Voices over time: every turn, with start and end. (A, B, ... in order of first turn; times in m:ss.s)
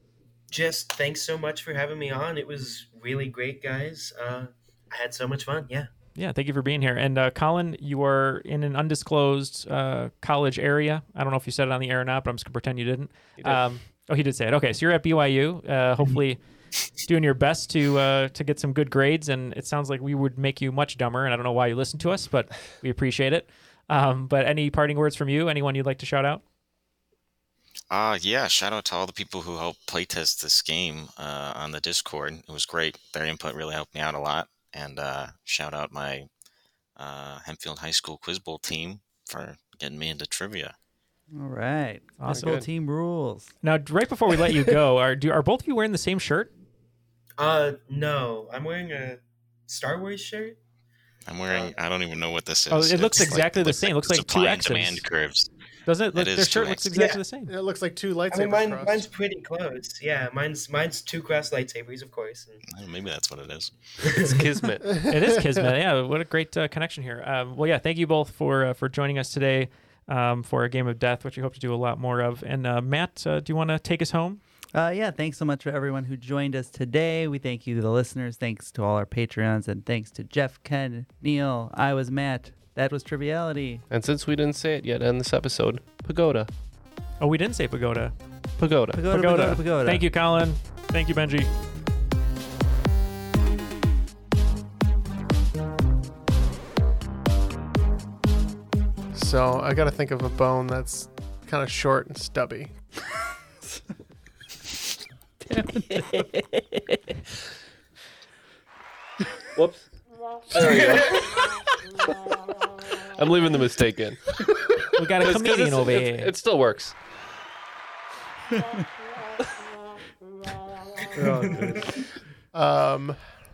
0:00.5-0:05.9 A
0:06.2-0:26.4 B
0:13.4-0:13.7 C
0:27.9-0:36.3 D
0:37.0-0:40.8 D
0:41.3-0:43.5 E
0:42.2-0:42.6 B
0:42.3-0:42.7 C
0:43.6-0:46.5 B
0:47.4-0:50.6 A
0:51.3-0:55.5 D
0:51.5-0:51.8 A
0:52.7-0:55.0 B
0:55.9-0:57.5 B
0:56.1-0:57.0 D
0:57.4-0:59.1 F
0:58.3-1:02.6 A
1:02.7-1:03.7 D
1:04.0-1:04.4 A
1:04.2-1:04.9 C
1:04.9-1:05.7 F
1:05.1-1:14.4 B
1:14.7-1:23.8 E
1:23.9-1:26.5 C
1:27.2-1:28.1 B
1:28.6-1:29.0 C
1:28.9-1:30.1 E
1:29.1-1:31.5 B
1:39.1-1:42.7 F
1:45.4-1:46.4 E
1:49.6-1:49.9 C
1:50.5-1:51.2 C
1:50.6-1:51.2 A
1:53.2-1:54.2 C
1:55.0-1:56.3 B
1:55.2-1:57.0 C
2:01.2-2:01.9 E
2:01.2-2:02.0 A
2:02.5-2:03.2 F